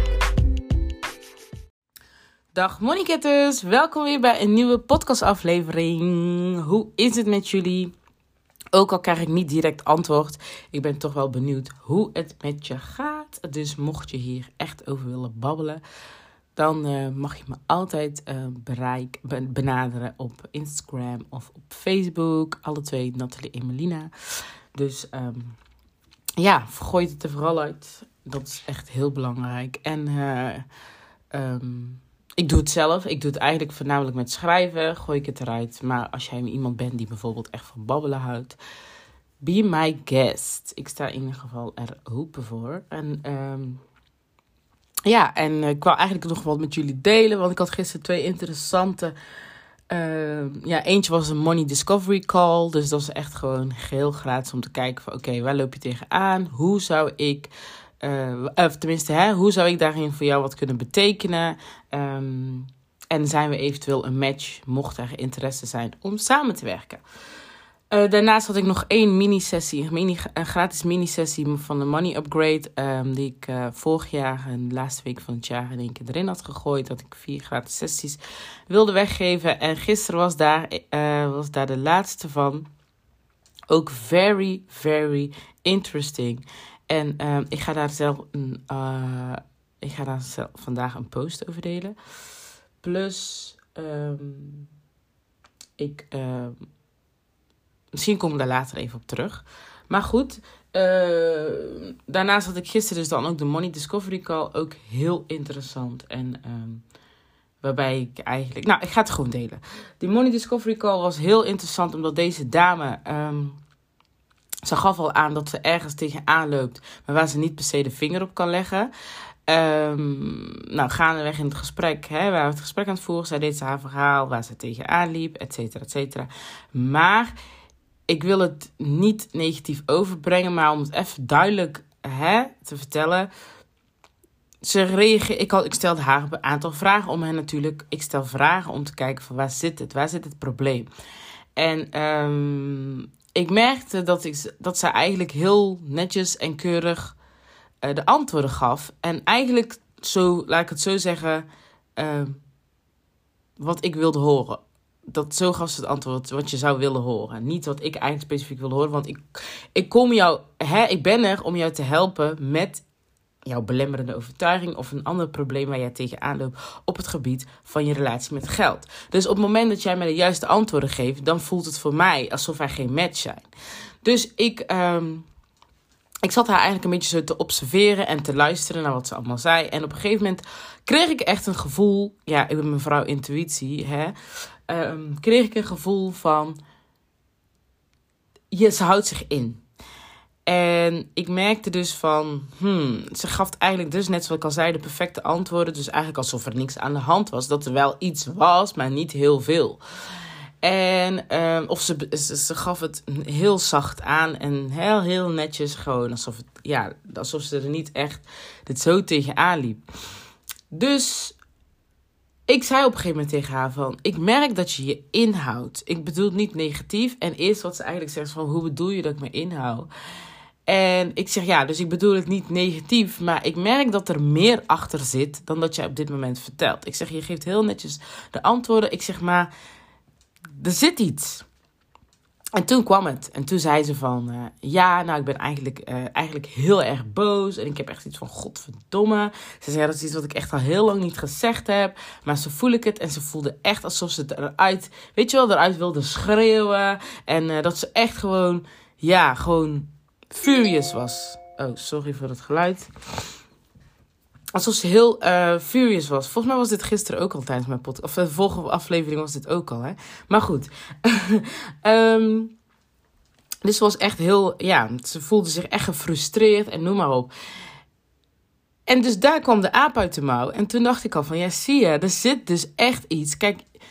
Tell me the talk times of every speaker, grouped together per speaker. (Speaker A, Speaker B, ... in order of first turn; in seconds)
Speaker A: 2.5-7.9, 8.7-15.8, 16.6-24.1, 24.7-25.6, 26.4-30.6, 31.3-38.6, 39.4-43.8, 45.0-49.1, 49.9-67.0, 67.9-82.7, 83.7-91.9, 92.8-94.7, 95.8-96.7, 97.9-106.8, 107.6-113.6, 114.6-118.9, 119.5-127.3, 128.1-133.3, 134.6-140.9, 141.6-147.2, 147.8-151.4, 152.0-152.4, 153.6-162.8, 163.4-173.5, 174.0-175.2, 176.2-184.1, 184.7-186.6, 188.5-189.6, 190.4-199.8, 200.6-209.8, 210.7-211.4, 212.5-219.9, 220.7-229.5, 230.6-231.4, 232.6-252.9, 254.5-262.5, 263.6-267.3, 268.9-273.6